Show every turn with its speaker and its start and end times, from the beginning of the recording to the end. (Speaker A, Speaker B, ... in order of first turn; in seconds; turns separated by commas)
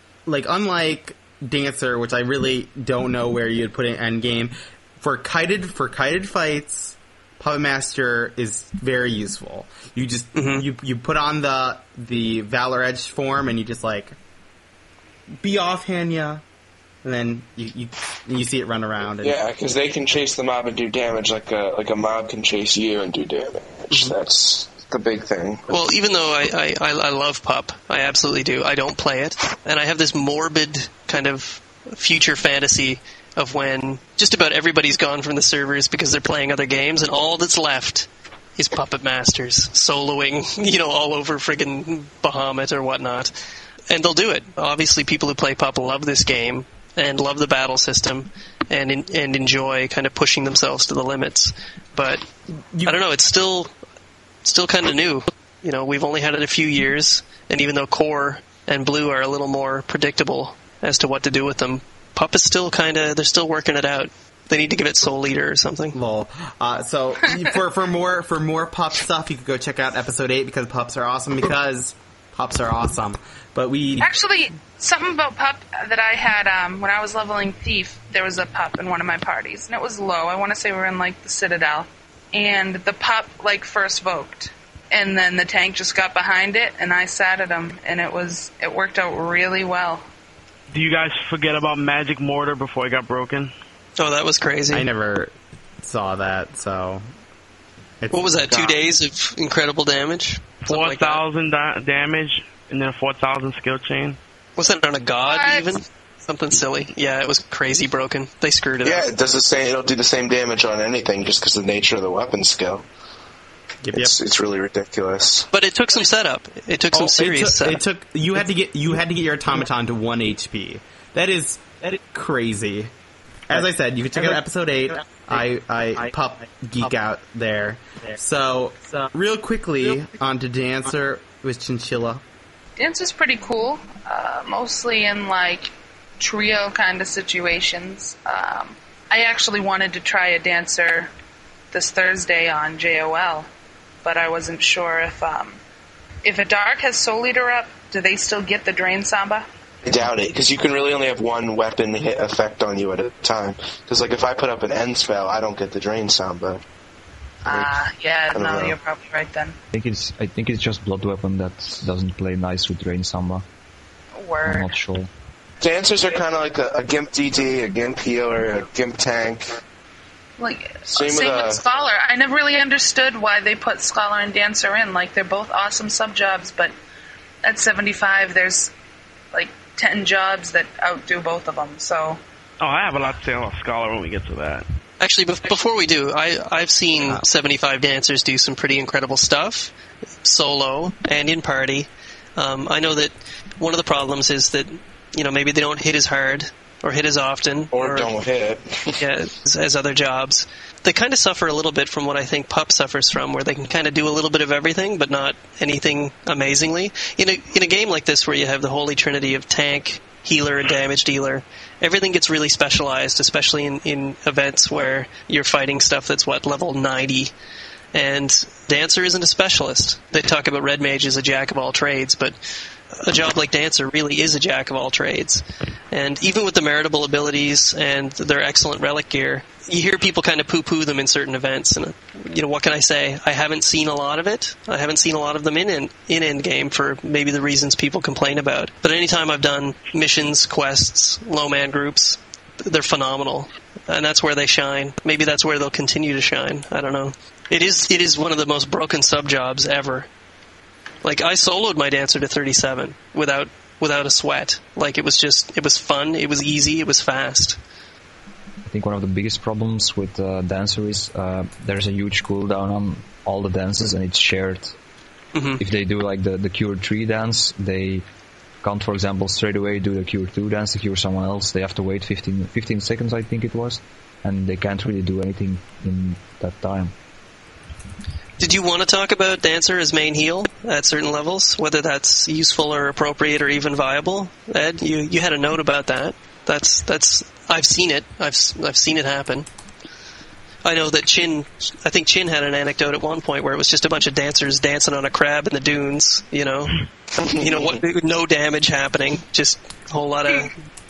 Speaker A: 0.2-14.2, Speaker B: 10.3-10.6, Speaker A: 15.4-16.4, Speaker A: 17.0-19.4, Speaker C: 19.2-25.7, Speaker B: 25.7-43.3, Speaker B: 43.9-52.2, Speaker A: 52.6-53.0, Speaker B: 52.8-53.7, Speaker B: 54.4-66.0, Speaker A: 65.9-74.1, Speaker D: 74.0-90.0, Speaker E: 90.7-93.5, Speaker B: 94.0-94.9, Speaker A: 94.7-97.0, Speaker A: 98.0-98.8, Speaker B: 98.1-101.2, Speaker E: 100.6-104.2, Speaker B: 104.6-109.1, Speaker D: 105.2-105.7, Speaker C: 108.8-112.9, Speaker A: 113.8-114.1, Speaker C: 114.0-115.5, Speaker B: 115.5-117.8, Speaker A: 116.9-122.9, Speaker A: 123.5-132.2, Speaker D: 132.8-141.1, Speaker D: 141.7-143.5, Speaker D: 144.0-145.6, Speaker D: 146.2-149.4, Speaker C: 149.8-156.6, Speaker D: 157.4-159.6, Speaker C: 157.5-157.7, Speaker C: 158.3-158.8, Speaker F: 159.7-163.4, Speaker D: 164.2-164.7, Speaker F: 164.4-165.1, Speaker C: 165.6-169.6, Speaker D: 170.4-176.7, Speaker C: 170.9-171.6, Speaker D: 177.4-178.7, Speaker D: 179.3-182.2, Speaker E: 182.6-184.7, Speaker B: 185.0-189.7, Speaker B: 190.2-198.1, Speaker C: 197.7-199.0, Speaker B: 199.0-217.3, Speaker B: 217.9-222.4, Speaker B: 222.9-250.1, Speaker B: 251.0-257.6, Speaker F: 258.6-264.8, Speaker B: 265.3-265.6, Speaker F: 265.6-268.0, Speaker F: 268.6-276.9, Speaker B: 278.4-289.5, Speaker B: 290.6-300.5